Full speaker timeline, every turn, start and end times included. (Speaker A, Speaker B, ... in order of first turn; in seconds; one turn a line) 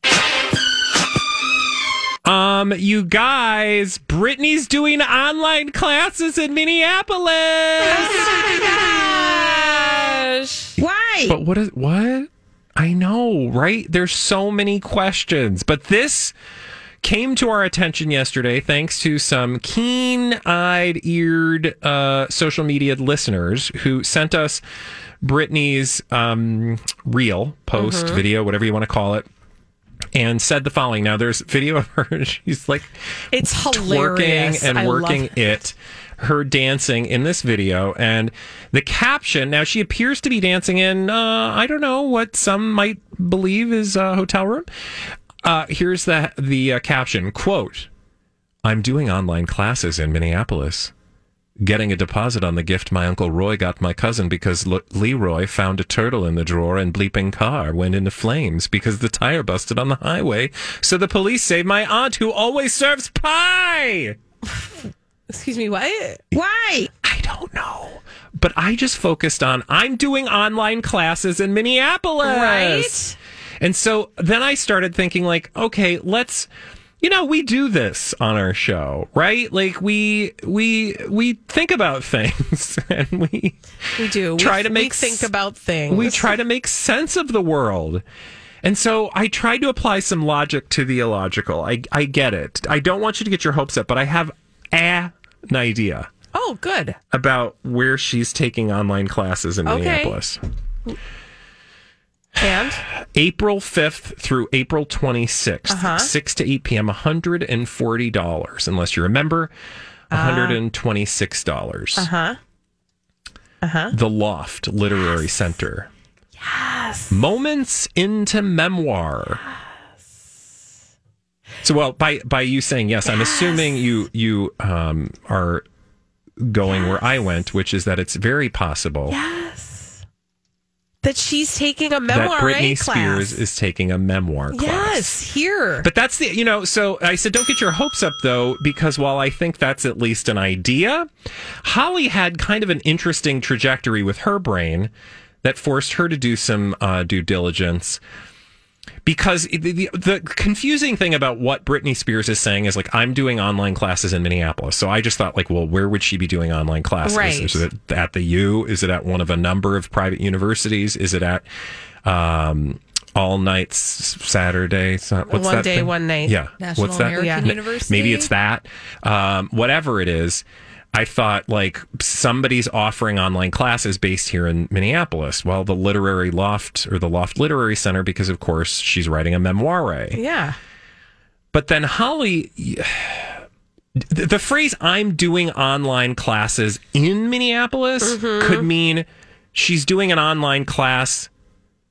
Speaker A: 2.2-8.2
Speaker B: 9.1-10.6
Speaker C: 10.8-11.4
Speaker A: 10.8-16.3
Speaker A: 17.0-24.6
Speaker A: 25.2-29.2
Speaker B: 27.7-28.2
Speaker A: 30.1-32.9
Speaker B: 33.3-35.6
Speaker A: 33.7-44.7
Speaker A: 45.4-47.9
Speaker A: 48.6-50.9
Speaker A: 51.6-64.2
Speaker B: 65.3-66.2
Speaker C: 66.3-66.9
Speaker A: 67.0-73.0
Speaker B: 72.2-73.2
Speaker A: 73.6-76.5
Speaker A: 77.0-83.6
Speaker B: 84.0-86.3
Speaker A: 84.4-85.3
Speaker A: 85.9-88.0
Speaker A: 88.6-96.1
Speaker B: 96.3-97.0
Speaker A: 97.1-100.4
Speaker B: 99.7-100.1
Speaker B: 102.4-102.8
Speaker A: 103.0-109.5
Speaker B: 105.7-106.1
Speaker A: 110.1-112.1
Speaker B: 110.1-110.6
Speaker B: 112.0-112.4
Speaker B: 113.6-113.9
Speaker A: 113.9-115.9
Speaker B: 116.4-117.1
Speaker A: 117.1-119.4
Speaker A: 121.6-125.6
Speaker B: 123.0-123.8
Speaker A: 126.4-129.2
Speaker B: 126.7-127.1
Speaker B: 129.1-130.0
Speaker B: 131.0-133.4
Speaker A: 132.1-135.1
Speaker B: 134.5-135.9
Speaker A: 135.8-141.1
Speaker A: 141.6-144.9
Speaker A: 145.4-148.0
Speaker A: 149.0-161.4
Speaker B: 157.0-157.6
Speaker A: 162.0-180.2
Speaker B: 165.3-166.4
Speaker C: 166.6-168.3
Speaker B: 167.1-167.5
Speaker B: 180.1-180.6
Speaker A: 181.5-183.4
Speaker A: 184.1-191.3
Speaker B: 188.0-188.7